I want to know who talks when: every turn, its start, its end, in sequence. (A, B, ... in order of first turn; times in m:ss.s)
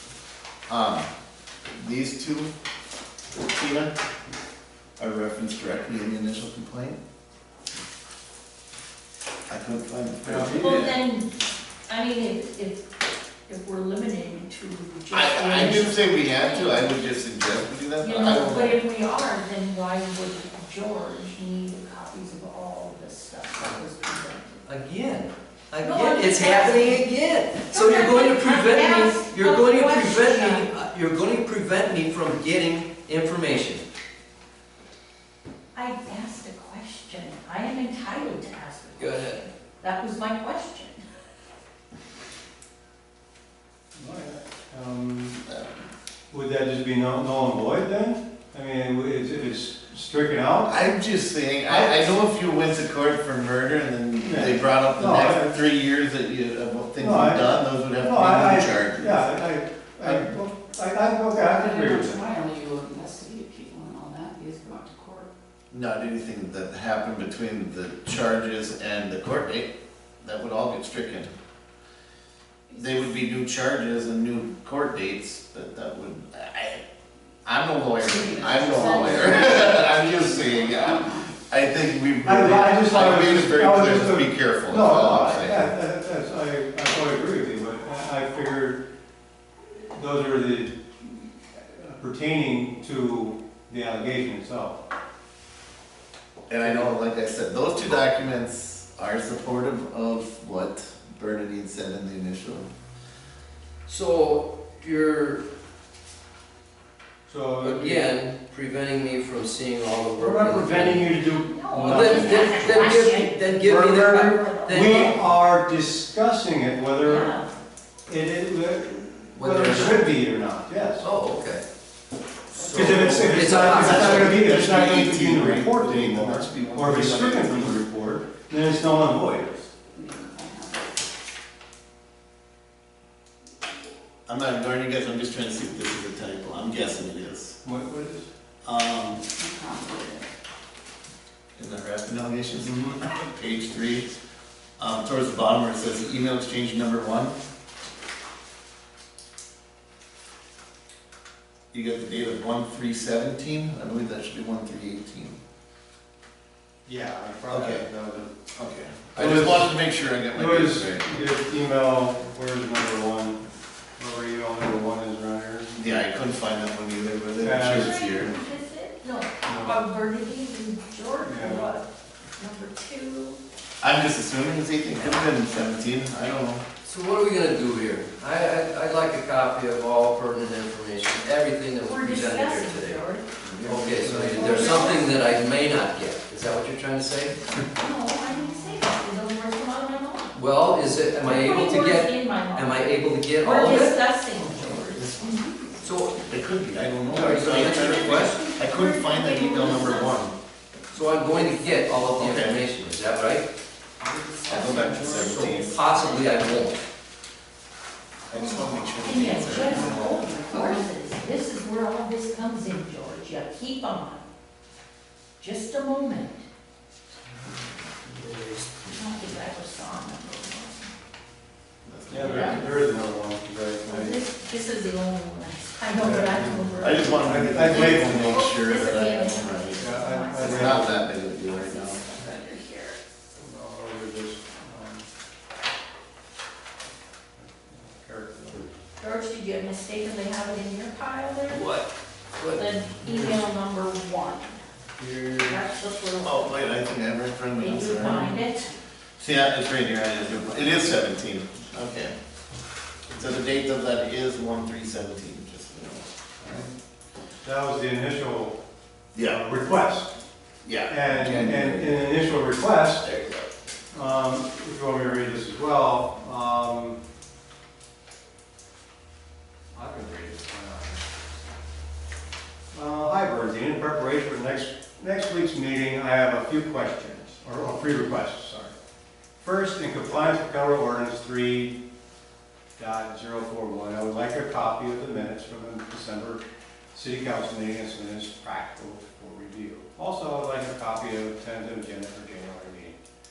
0:00.7-0:01.1 A
0:01.7-0:02.5 A
0:03.3-0:03.9 A
0:05.0-0:07.0 A
0:09.5-0:10.9 A
0:10.2-0:10.8 B
0:10.5-0:11.3 C
0:11.9-0:12.8 C
0:13.5-0:17.0 C
0:15.1-0:18.8 A
0:18.0-0:24.6 C
0:24.6-0:33.8 D
0:25.8-0:27.0 C
0:27.7-0:30.7 C
0:35.7-0:41.0 C
0:39.0-0:39.4 D
0:43.9-0:45.4 B
0:45.4-0:45.7 A
0:46.3-0:50.8 B
0:50.6-0:59.4 A
0:51.7-0:52.0 B
0:54.2-0:55.6 B
0:57.0-1:02.2 B
1:00.0-1:00.3 A
1:01.5-1:05.3 E
1:05.7-1:11.3 A
1:12.7-1:16.8 A
1:17.4-1:25.7 A
1:18.0-1:21.2 E
1:22.2-1:28.8 B
1:29.6-1:34.8 B
1:36.5-1:42.7 A
1:36.6-1:36.9 B
1:43.8-1:45.4 D
1:47.3-1:48.0 B
1:47.6-1:51.1 D
1:50.2-1:52.4 B
1:51.3-1:53.5 C
1:51.7-1:55.2 D
1:51.8-1:52.8 A
1:53.6-1:57.4 B
1:54.3-1:55.1 C
1:57.0-1:57.5 C
1:58.0-2:01.1 B
1:59.3-2:00.1 D
2:01.0-2:01.6 D
2:02.5-2:04.4 D
2:02.7-2:09.7 B
2:03.6-2:07.8 A
2:09.9-2:11.0 E
2:14.2-2:17.6 A
2:17.6-2:18.3 B
2:18.6-2:19.2 A
2:19.3-2:20.3 E
2:21.6-2:24.1 A
2:22.6-2:23.0 B
2:24.8-2:27.4 A
2:31.7-2:35.4 A
2:36.8-2:38.3 B
2:37.5-2:37.8 A
2:38.5-2:41.3 A
2:39.2-2:39.8 B
2:40.3-2:43.4 B
2:44.0-2:45.7 B
2:45.7-2:48.4 A
2:47.4-2:48.0 B
2:47.7-2:51.8 C
2:49.4-2:49.8 B
2:51.2-2:51.7 B
2:52.4-2:53.4 C
2:53.8-2:56.6 A
2:56.8-3:03.0 D
3:01.8-3:03.2 C
3:03.6-3:07.4 D
3:03.6-3:05.0 B
3:04.3-3:05.1 C
3:07.6-3:10.4 C
3:08.2-3:08.9 E
3:10.3-3:14.0 D
3:11.2-3:15.5 C
3:14.7-3:15.4 A
3:15.8-3:16.2 D
3:16.2-3:20.3 A
3:17.1-3:18.4 D
3:17.4-3:20.3 C
3:20.9-3:23.5 D
3:22.2-3:22.5 A
3:24.0-3:25.9 B
3:24.5-3:25.5 A
3:25.0-3:26.8 D
3:28.3-3:30.2 A
3:28.4-3:34.3 C
3:29.1-3:30.9 E
3:35.4-3:36.4 C
3:38.8-3:40.9 C
3:41.8-3:42.8 A
3:42.1-3:44.2 B
3:43.9-3:53.0 C
3:46.0-3:48.5 B
3:46.8-3:52.0 A
3:49.7-3:51.0 B
3:53.4-3:55.0 B
3:57.4-3:58.7 B
3:59.0-4:01.7 C
4:01.5-4:02.6 D
4:02.5-4:04.6 C
4:05.0-4:05.6 B
4:05.4-4:06.8 C
4:06.2-4:08.3 A
4:07.6-4:08.7 C
4:08.1-4:08.4 B
4:09.2-4:12.1 A
4:13.1-4:16.6 A
4:16.4-4:16.7 B
4:17.4-4:18.6 B
4:19.1-4:19.4 A
4:19.2-4:20.1 B
4:20.6-4:21.9 A
4:20.9-4:23.1 B
4:23.0-4:23.4 A
4:23.9-4:27.0 B
4:29.7-4:31.0 B
4:32.7-4:38.7 B
4:39.4-4:41.8 B
4:42.8-4:46.4 B
4:46.9-4:53.0 B